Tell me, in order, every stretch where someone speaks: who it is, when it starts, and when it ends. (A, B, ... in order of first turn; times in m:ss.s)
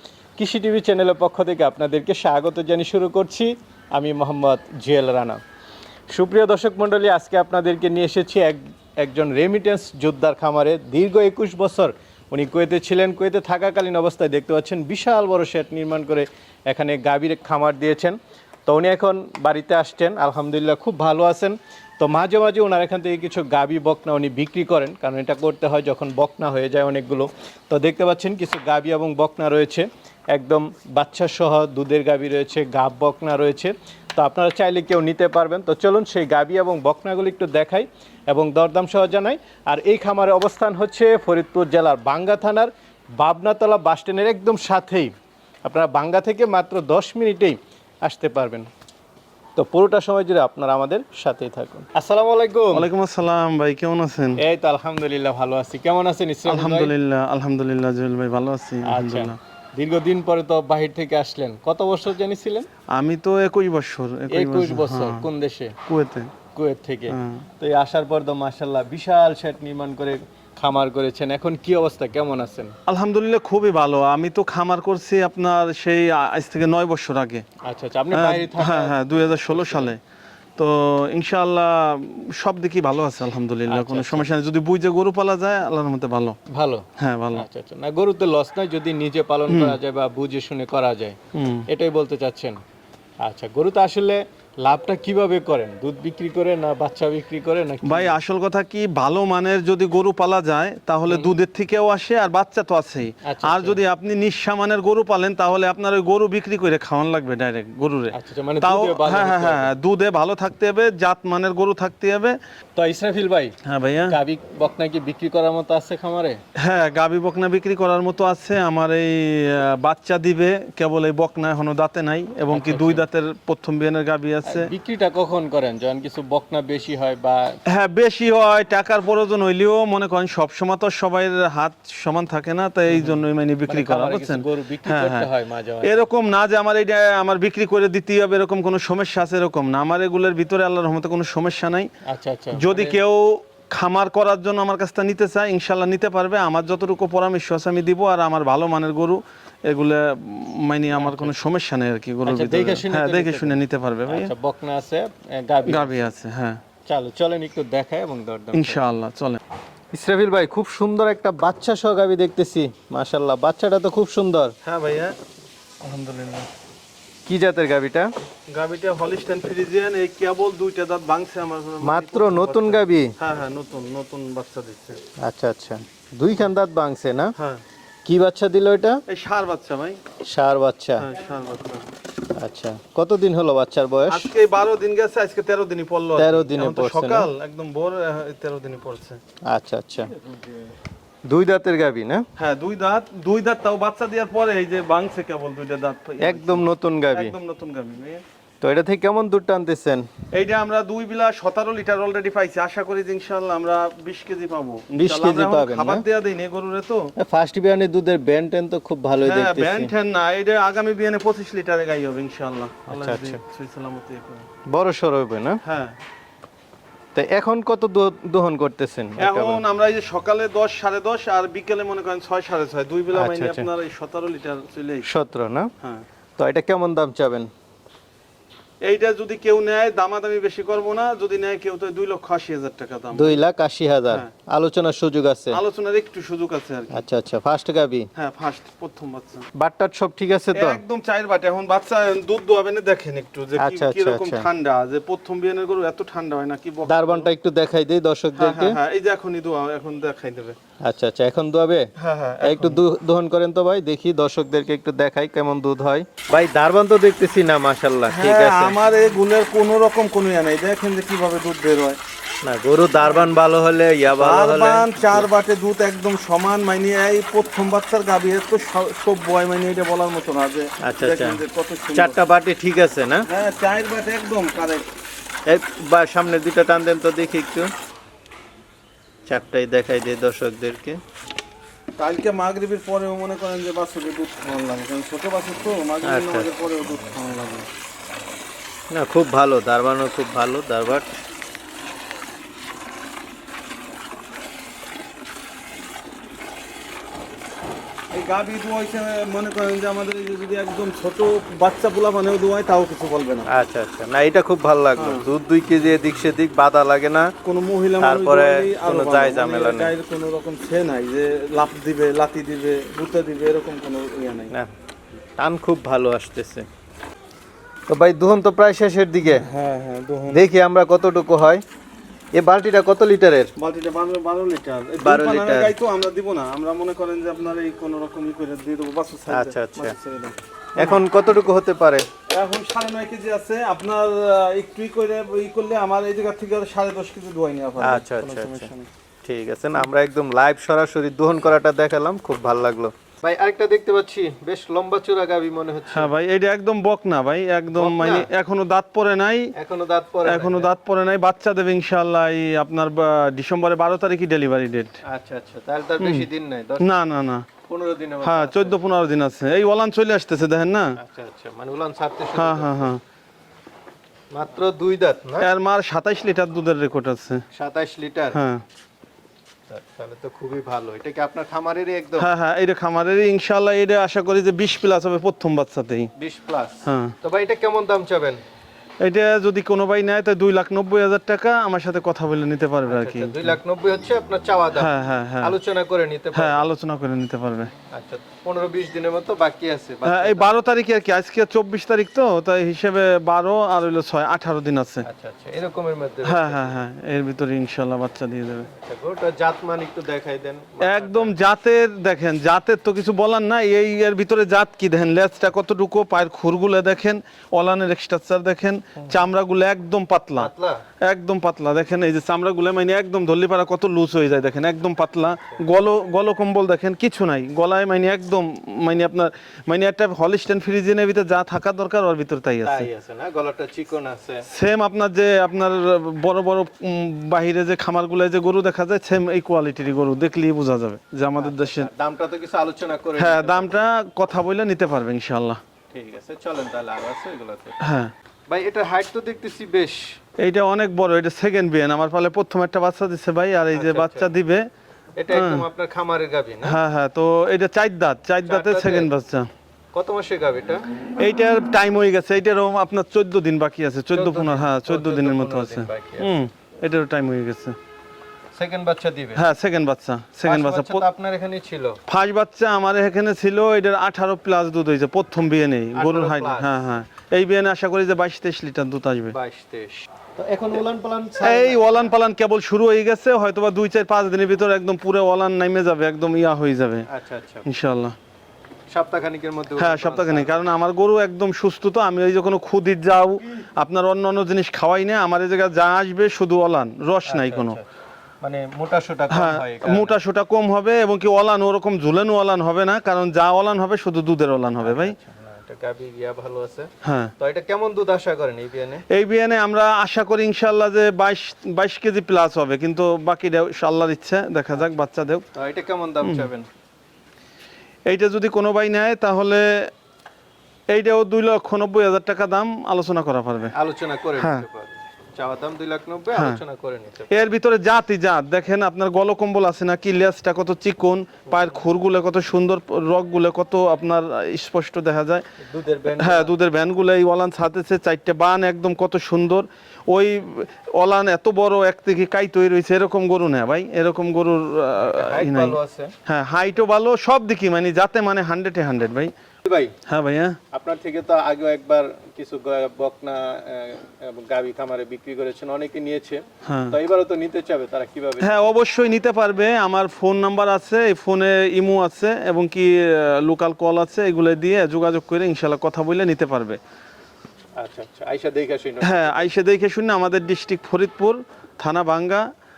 0:00.4-0:05.4 A
0:06.1-0:45.1 A
0:45.6-0:48.7 A
0:49.6-0:52.9 A
0:52.7-0:54.4 B
0:54.4-0:56.9 A
0:56.4-0:59.4 B
0:58.9-1:02.7 A
1:02.9-1:05.3 B
1:04.3-1:05.7 A
1:05.8-1:06.3 B
1:06.5-1:12.7 A
1:07.1-1:07.4 B
1:12.9-1:17.4 B
1:17.6-1:19.9 A
1:18.1-1:20.0 B
1:20.6-1:26.4 B
1:23.7-1:24.3 A
1:26.5-1:32.6 A
1:27.0-1:27.4 B
1:29.5-1:29.8 B
1:31.3-1:31.6 B
1:33.2-1:38.2 A
1:37.8-1:52.4 B
1:43.2-1:43.8 A
1:48.1-1:49.7 A
1:52.8-1:53.5 A
1:53.6-1:54.2 B
1:54.1-1:56.4 A
1:56.6-2:04.7 B
2:02.5-2:03.0 A
2:04.4-2:07.6 A
2:07.7-2:15.3 B
2:12.9-2:16.0 A
2:15.8-2:21.9 B
2:22.1-2:23.0 A
2:22.5-2:34.3 B
2:30.9-2:31.3 A
2:32.2-2:36.1 A
2:35.7-2:36.6 B
2:36.9-2:38.8 A
2:38.5-2:39.4 B
2:39.9-2:44.5 A
2:44.6-2:45.2 B
2:45.8-2:46.5 B
2:47.2-2:48.1 A
2:48.5-2:55.0 B
2:51.8-2:53.1 A
2:55.2-2:57.3 A
2:57.4-2:57.6 B
2:58.0-2:59.0 A
2:59.1-3:00.0 B
3:00.2-3:01.1 A
3:01.0-3:01.9 B
3:02.4-3:04.3 A
3:04.1-3:09.2 B
3:06.2-3:07.3 A
3:09.5-3:10.1 A
3:11.3-3:12.2 A
3:12.4-3:18.2 B
3:16.2-3:17.3 A
3:18.6-3:20.1 A
3:20.3-3:27.1 B
3:24.9-3:26.0 A
3:27.2-3:29.9 A
3:29.2-3:34.4 B
3:32.9-3:33.4 A
3:34.7-3:35.6 A
3:35.6-3:36.0 B
3:37.1-3:39.6 A
3:39.2-3:45.1 B
3:43.1-3:43.7 A
3:45.0-3:45.7 A
3:46.4-3:47.5 A
3:48.8-3:53.4 B
3:53.1-3:55.6 A
3:55.5-3:57.0 B
3:56.9-3:58.1 A
3:58.2-3:59.4 B
3:59.5-4:00.8 A
4:00.5-4:07.3 B
4:03.6-4:04.5 A
4:06.8-4:08.8 A
4:08.4-4:10.6 B
4:10.8-4:11.9 A
4:12.0-4:12.8 B
4:12.4-4:18.8 A
4:18.1-4:22.0 B
4:22.4-4:25.3 A
4:23.0-4:23.3 B
4:24.1-4:32.2 B
4:30.8-4:31.4 A
4:31.9-4:33.3 A
4:33.3-4:34.9 B
4:35.5-4:37.7 A
4:39.3-4:41.0 A
4:42.0-4:47.7 B
4:46.0-4:46.5 A
4:48.9-4:51.1 A
4:58.1-5:03.5 B
5:03.5-5:07.3 A
5:05.0-5:05.2 B
5:07.4-5:14.5 B
5:08.0-5:09.9 A
5:15.4-5:16.7 A
5:17.9-5:19.4 A
5:19.4-5:20.4 B
5:20.3-5:21.6 A
5:22.4-5:23.5 A
5:23.6-5:31.0 B
5:25.0-5:25.7 A
5:29.3-5:29.9 A
5:30.8-5:32.0 A
5:32.3-5:38.9 B
5:37.8-5:38.7 A
5:39.2-5:46.1 A
5:45.9-5:49.5 B
5:47.7-5:48.3 A
5:49.6-5:50.7 A
5:50.2-5:55.0 B
5:55.0-5:56.9 A
5:56.0-5:56.3 B
5:56.8-5:57.5 B
5:57.7-5:58.8 A
5:58.2-6:00.9 B
6:01.0-6:02.9 A
6:02.4-6:03.0 B
6:04.3-6:05.5 A
6:05.4-6:07.4 B
6:07.5-6:08.4 A
6:08.3-6:08.6 B
6:09.7-6:12.3 A
6:12.2-6:16.1 B
6:16.2-6:18.4 A
6:16.8-6:17.1 B
6:19.0-6:23.6 B
6:22.8-6:24.9 A
6:24.7-6:25.6 B
6:25.4-6:26.7 A
6:26.3-6:27.7 B
6:27.9-6:30.5 A
6:30.0-6:35.0 B
6:35.0-6:36.8 A
6:36.2-6:38.7 B
6:38.7-6:41.4 A
6:40.8-7:02.9 B
6:50.4-6:50.8 A
7:02.6-7:04.4 A
7:04.5-7:11.9 B
7:11.4-7:13.8 A
7:13.2-7:15.6 B
7:15.9-7:17.8 A
7:17.8-7:18.1 B
7:18.5-7:20.0 A
7:20.4-7:24.6 B
7:23.7-7:24.3 A
7:25.2-7:26.8 A
7:25.3-7:25.7 B
7:26.6-7:29.5 B
7:28.4-7:29.1 A
7:29.9-7:30.9 A
7:31.2-7:37.8 B
7:34.1-7:36.4 A
7:38.5-7:39.4 A
7:39.4-7:41.0 B
7:40.4-7:42.0 A
7:42.1-7:49.3 B
7:45.9-7:46.7 A
7:49.3-7:52.1 A
7:51.4-7:57.0 B
7:57.1-7:57.7 A
7:57.6-7:58.2 B
7:58.9-8:00.6 A
7:59.8-8:07.8 B
8:07.2-8:07.8 A
8:08.4-8:10.2 A
8:09.3-8:15.1 B
8:14.8-8:19.0 A
8:17.0-8:17.3 B
8:19.1-8:25.4 B
8:25.5-8:26.7 A
8:26.2-8:26.5 B
8:28.1-8:29.9 B
8:30.9-8:33.7 B
8:33.7-8:37.3 A
8:34.4-8:34.6 B
8:36.3-8:36.6 B
8:37.3-8:45.4 B
8:45.6-8:46.5 A
8:46.2-8:59.3 B
8:55.1-8:56.1 A
8:59.6-8:59.9 A
9:00.1-9:00.6 B
9:00.7-9:08.7 A
9:06.6-9:07.0 B
9:08.4-9:16.8 B
9:17.8-9:19.5 A
9:19.0-9:22.5 B